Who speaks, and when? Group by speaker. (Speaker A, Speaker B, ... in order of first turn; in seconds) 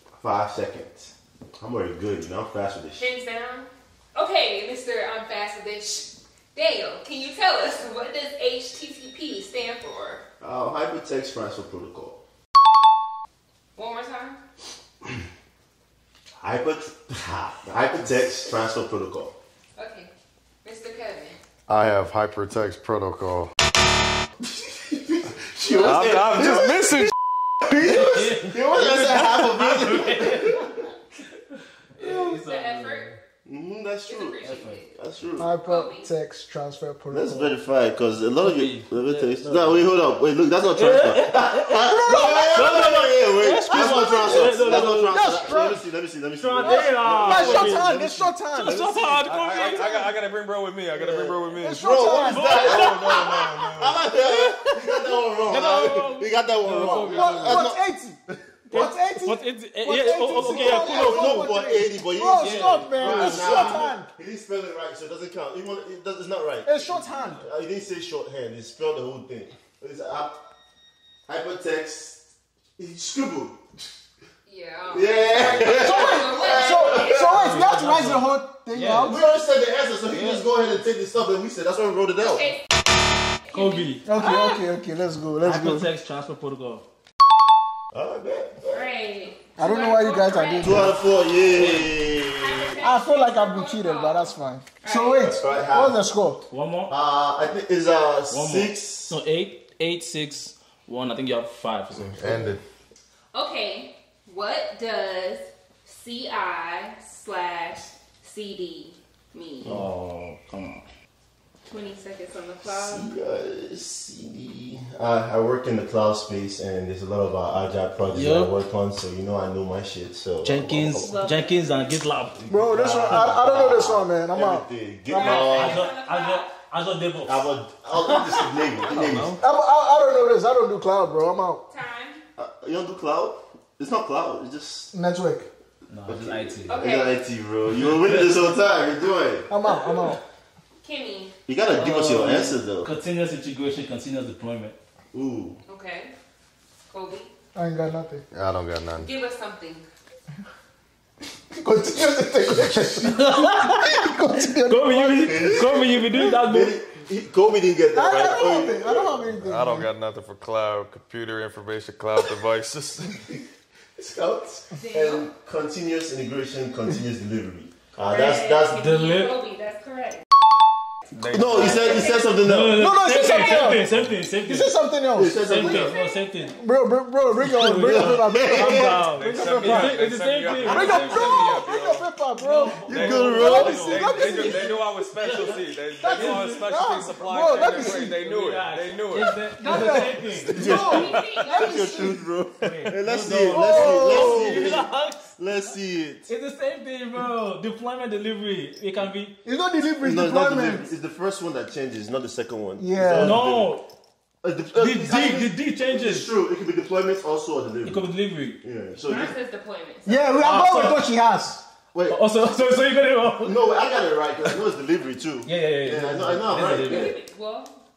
Speaker A: 0.2-3.0, 10.4-12.2, 16.4-19.4, 24.5-26.7, 27.8-30.9, 33.5-35.5, 37.1-47.8, 50.9-58.5, 60.3-70.4, 71.3-73.6, 74.9-77.2, 79.0-82.5, 87.9-88.9, 90.6-92.7, 95.2-96.0, 96.9-99.2, 112.7-121.1, 122.4-125.8, 127.2-129.3, 132.4-134.9, 136.1-139.5, 141.5-142.9, 145.1-145.6, 155.2-159.3, 163.9-168.8, 171.3-172.9, 175.1-175.9, 177.6-178.9, 182.8-183.8, 190.4-196.3, 200.0-203.8, 204.4-208.1, 208.6-209.3, 211.9-212.2, 213.4-217.1
Speaker B: 3.0-10.2, 13.8-14.4, 19.8-20.1, 20.6-21.4, 25.7-26.0, 32.3-33.1, 34.1-34.9, 35.6-36.1, 74.5-77.3, 82.3-82.6, 83.5-84.0, 88.7-95.6, 103.3-109.8, 111.7-113.1, 120.9-121.7, 125.1-126.5, 131.7-132.2, 136.7-137.2, 140.8-141.3, 145.7-146.1, 146.9-147.3, 149.0-149.8, 164.7-165.3, 168.1-170.2, 171.6-172.4, 173.2-173.6, 175.6-176.5, 190.5-192.1, 209.0-210.3, 216.6-217.7
Speaker C: 21.7-23.5, 25.7-27.1, 48.6-51.9, 52.5-54.1, 102.1-102.6, 148.3-149.1, 159.4-163.2, 171.1-172.1, 179.0-182.0, 182.9-189.4
Speaker D: 27.9-30.7, 31.9-33.1, 34.4-34.8, 38.4-39.9, 40.7-45.3, 46.3-50.1, 52.2-53.3, 55.4-57.6, 58.7-61.4, 62.3-63.9, 77.2-79.1, 80.1-80.4, 83.5-84.5, 85.4-86.8, 91.5-92.0, 96.5-96.9, 98.3-102.4, 109.6-110.8, 118.1-118.5, 120.4-122.5, 125.1-127.5, 128.0-129.4, 135.9-136.7, 137.8-138.4, 139.7-140.1, 141.7-144.8, 153.1-153.9, 154.6-156.7, 168.7-169.3, 172.4-174.7, 175.4-176.6, 177.4-181.6, 182.3-186.7, 187.7-190.8, 192.6-195.7, 196.3-199.3, 203.2-203.8, 204.7-206.3, 207.8-208.6, 210.4-211.1, 212.1-213.7, 215.4-217.2
Speaker E: 35.4-37.5, 41.7-42.7, 44.6-45.8, 46.6-48.8, 51.5-52.8, 53.4-55.1, 57.0-58.2, 58.7-64.1, 66.6-67.5, 75.7-79.2, 84.0-85.9, 89.6-91.0, 92.8-96.4, 122.5-124.7, 129.3-131.6, 134.9-135.5, 139.5-140.2, 147.5-148.2, 151.6-155.7, 157.9-159.9, 172.7-173.9, 174.4-175.4, 176.6-180.1, 180.6-184.8, 185.9-188.2, 189.3-192.3, 193.4-194.7, 199.4-200.9, 202.8-203.4, 210.1-211.6